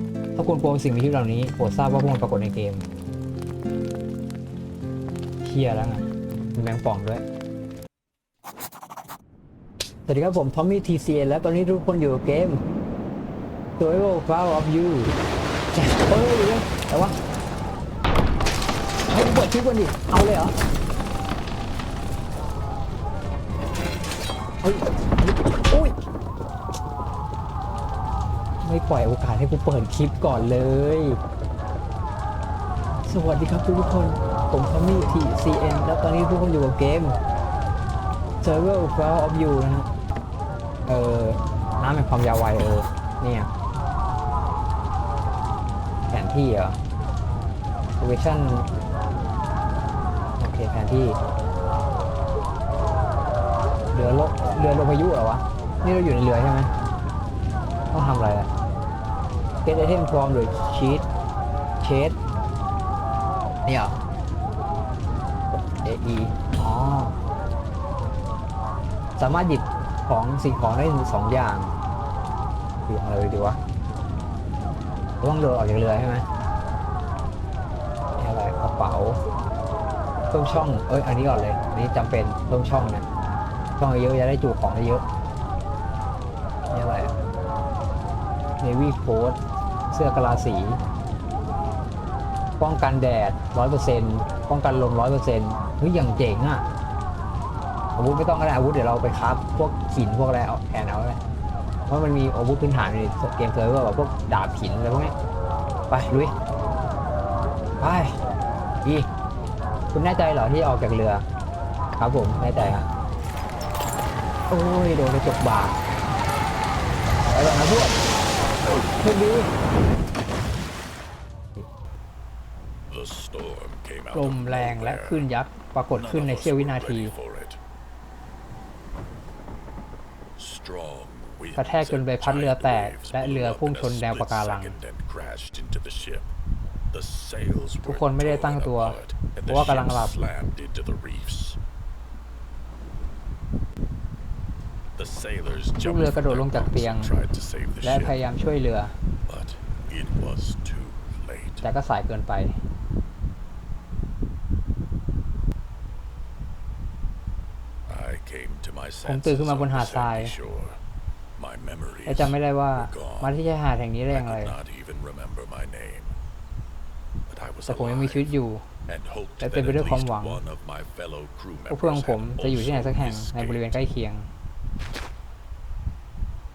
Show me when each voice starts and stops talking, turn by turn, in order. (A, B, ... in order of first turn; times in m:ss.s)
0:00.4-0:02.8 A
0:05.4-0:07.2 A
0:10.0-0:12.6 A
0:13.8-0:15.1 A
0:15.7-0:17.1 A
0:19.1-0:20.5 A
0:24.6-0:25.9 A
0:28.6-0:31.2 A
0:33.0-0:37.2 A
0:38.4-0:39.9 A
0:40.9-0:43.5 A
0:46.1-0:46.8 A
0:48.0-0:48.7 A
0:50.4-0:51.2 A
0:53.9-0:56.7 A
0:57.9-0:58.5 A
0:59.6-1:01.0 A
1:01.8-1:02.2 A
1:03.6-1:04.0 A
1:05.5-1:07.2 A
1:09.2-1:11.7 A
1:12.8-1:13.6 A
1:15.2-1:16.2 A
1:18.2-1:19.2 A
1:20.3-1:23.0 A
1:23.8-1:25.0 A
1:26.7-1:27.1 A
1:28.6-1:29.4 A
1:29.9-1:30.8 A
1:32.6-1:36.6 A
1:38.0-1:41.2 A
1:41.9-1:45.1 A
1:45.9-1:46.3 A
1:47.8-1:48.1 A
1:49.9-1:51.2 A
1:52.0-1:52.9 A
1:54.5-1:55.8 A
1:57.3-1:58.0 A
1:59.0-1:59.5 A
2:02.9-2:05.3 B
2:04.1-2:07.1 A
2:06.0-2:07.6 B
2:10.4-2:16.3 B
2:11.6-2:14.8 A
2:16.9-2:21.6 B
2:17.8-2:20.2 A
2:25.0-2:28.2 B
2:25.8-2:27.1 A
2:27.8-2:29.0 A
2:29.3-2:31.6 B
2:31.6-2:32.6 A
2:37.9-2:40.8 B
2:39.0-2:40.3 A
2:41.4-2:43.3 B
2:42.0-2:44.6 A
2:44.1-2:46.2 B
2:47.3-2:48.3 B
2:47.6-2:48.6 A
2:48.9-2:53.8 B
2:49.4-2:50.4 A
2:51.7-2:54.3 A